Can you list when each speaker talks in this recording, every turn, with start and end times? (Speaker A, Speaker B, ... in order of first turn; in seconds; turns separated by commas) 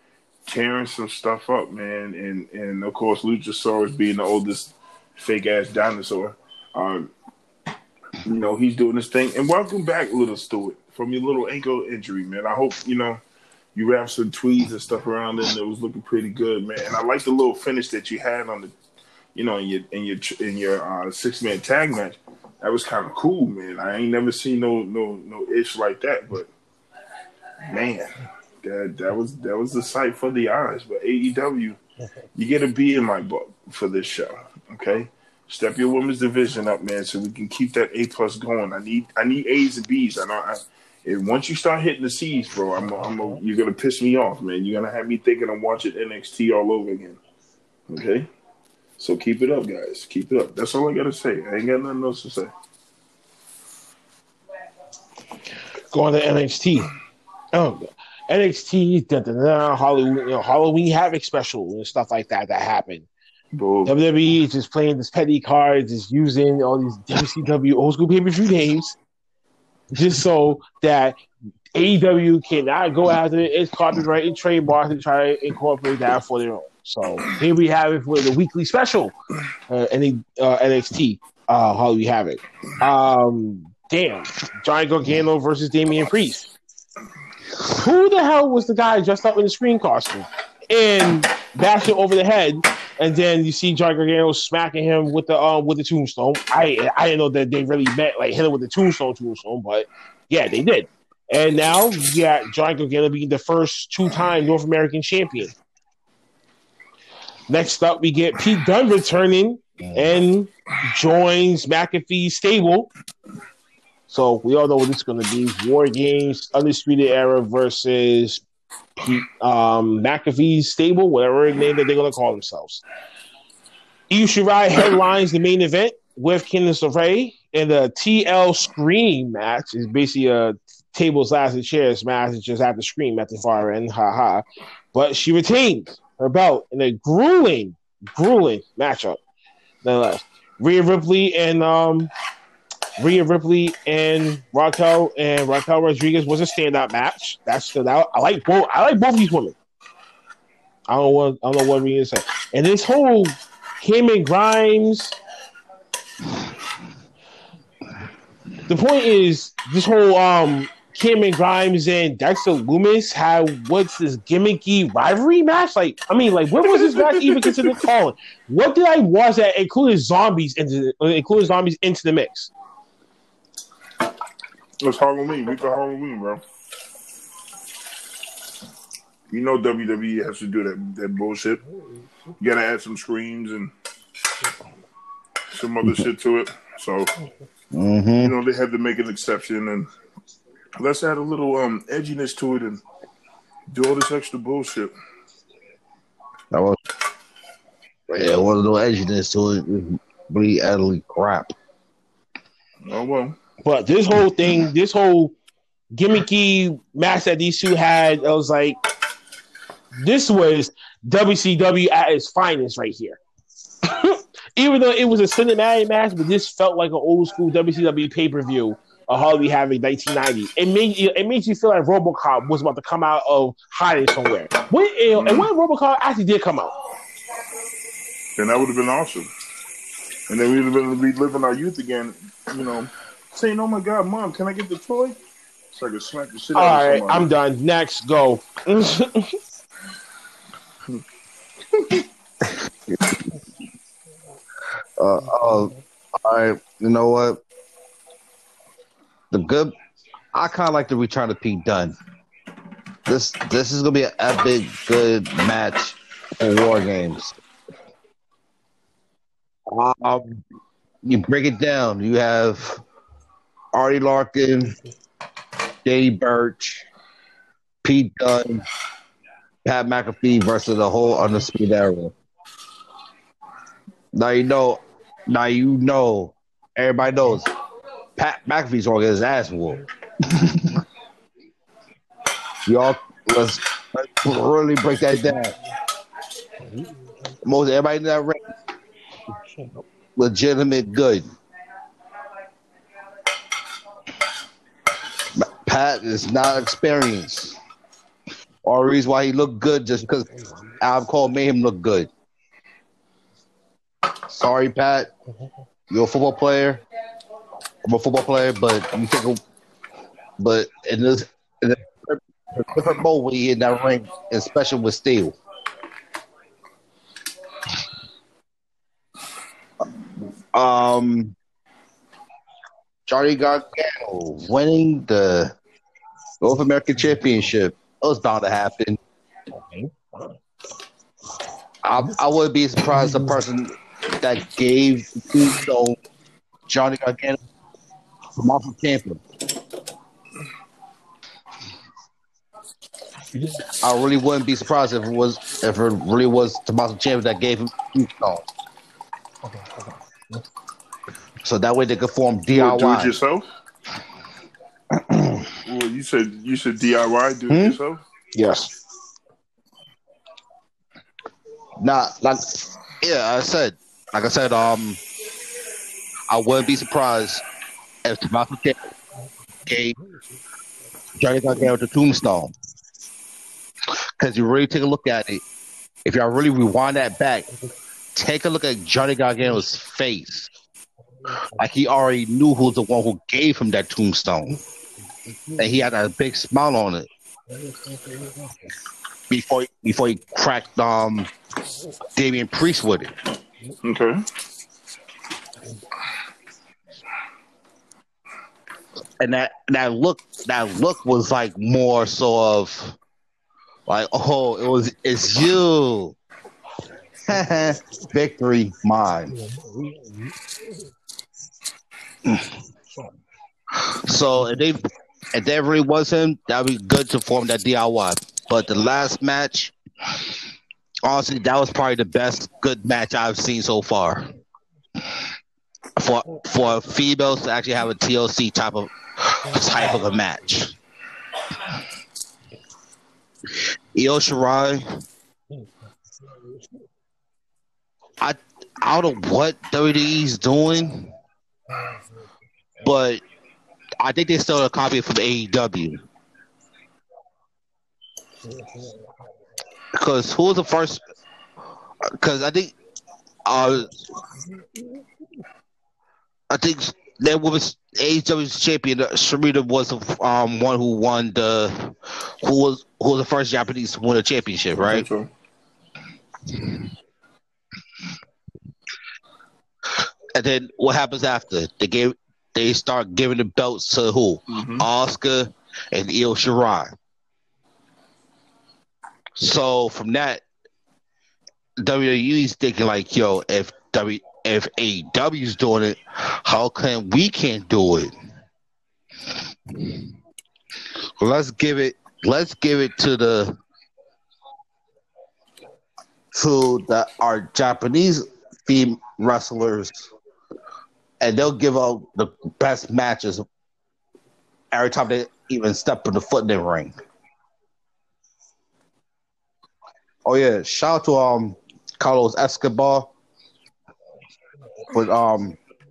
Speaker A: 0.5-7.1, Speaker A: 8.2-13.2, Speaker A: 13.7-18.7, Speaker A: 19.3-26.5, Speaker A: 27.6-28.1, Speaker A: 28.6-31.8, Speaker A: 32.3-47.2, Speaker A: 47.9-48.3, Speaker A: 49.0-52.5, Speaker B: 55.9-56.9, Speaker B: 57.5-63.1, Speaker A: 63.5-64.0, Speaker B: 63.9-69.0, Speaker B: 69.9-71.2, Speaker B: 71.7-79.1, Speaker B: 79.7-86.5, Speaker B: 87.6-105.5, Speaker B: 107.5-112.9, Speaker B: 114.1-118.4, Speaker B: 119.0-122.8, Speaker B: 124.1-139.2, Speaker B: 139.8-142.1, Speaker B: 143.0-149.6, Speaker B: 150.9-155.1, Speaker B: 158.7-172.5, Speaker A: 166.7-167.8, Speaker A: 174.8-176.4, Speaker A: 179.3-181.6, Speaker A: 182.4-183.7, Speaker A: 185.5-187.1, Speaker C: 187.7-188.3, Speaker A: 188.2-189.9, Speaker A: 190.8-192.8, Speaker A: 193.7-194.9, Speaker C: 196.5-196.8, Speaker C: 198.1-201.5, Speaker A: 202.8-203.4, Speaker B: 203.6-205.3, Speaker B: 205.9-208.8, Speaker B: 209.9-213.2, Speaker B: 213.8-226.7, Speaker A: 225.1-225.5, Speaker A: 228.3-229.3, Speaker A: 230.3-235.2, Speaker A: 235.7-237.2, Speaker B: 236.5-239.3, Speaker A: 241.7-242.1, Speaker C: 245.0-247.4, Speaker C: 249.3-249.7, Speaker C: 250.3-252.0, Speaker C: 253.1-257.4, Speaker C: 259.7-260.4, Speaker C: 261.0-262.8, Speaker C: 263.7-264.8, Speaker C: 265.8-266.9, Speaker C: 267.8-268.6, Speaker C: 269.6-272.1, Speaker C: 274.1-277.5, Speaker C: 278.2-280.8, Speaker C: 282.6-285.5, Speaker C: 287.4-288.4, Speaker C: 290.1-291.3, Speaker C: 295.3-297.6, Speaker C: 298.6-302.1, Speaker C: 304.3-305.1, Speaker C: 305.9-306.8, Speaker C: 307.8-309.4, Speaker C: 310.4-315.4, Speaker C: 320.5-321.3, Speaker C: 323.1-325.5, Speaker C: 326.4-329.0, Speaker B: 329.5-330.2, Speaker C: 331.8-336.0, Speaker C: 336.7-337.4, Speaker C: 338.4-339.2, Speaker C: 343.8-348.4, Speaker C: 351.4-353.2, Speaker A: 352.5-353.5, Speaker C: 354.9-355.5, Speaker A: 355.6-358.0, Speaker C: 357.5-357.8, Speaker B: 358.3-358.7, Speaker C: 361.8-365.0, Speaker C: 366.3-367.4, Speaker C: 368.0-368.8, Speaker C: 369.6-369.9, Speaker C: 371.2-372.5, Speaker C: 374.2-375.4, Speaker C: 376.0-377.5, Speaker C: 378.1-380.5, Speaker C: 381.6-384.6, Speaker C: 385.6-387.1, Speaker B: 388.1-388.4, Speaker C: 389.3-391.3, Speaker C: 392.1-393.1, Speaker A: 393.8-394.2, Speaker C: 399.2-402.9, Speaker C: 403.9-406.1, Speaker C: 407.3-409.3, Speaker B: 409.5-410.1, Speaker C: 413.7-419.7, Speaker C: 421.0-424.2, Speaker C: 426.0-430.7, Speaker C: 433.9-434.8, Speaker C: 438.2-441.1, Speaker C: 442.8-443.2, Speaker C: 444.0-446.0, Speaker C: 449.9-451.0, Speaker C: 452.0-452.7, Speaker C: 453.4-453.9, Speaker C: 456.5-465.1, Speaker A: 464.8-465.3, Speaker C: 470.3-476.9, Speaker A: 474.5-474.9, Speaker C: 479.4-480.4, Speaker C: 481.8-488.1, Speaker C: 491.2-493.6, Speaker C: 496.3-500.1, Speaker C: 501.2-503.4, Speaker C: 504.7-506.9, Speaker C: 510.2-513.1, Speaker C: 514.9-515.6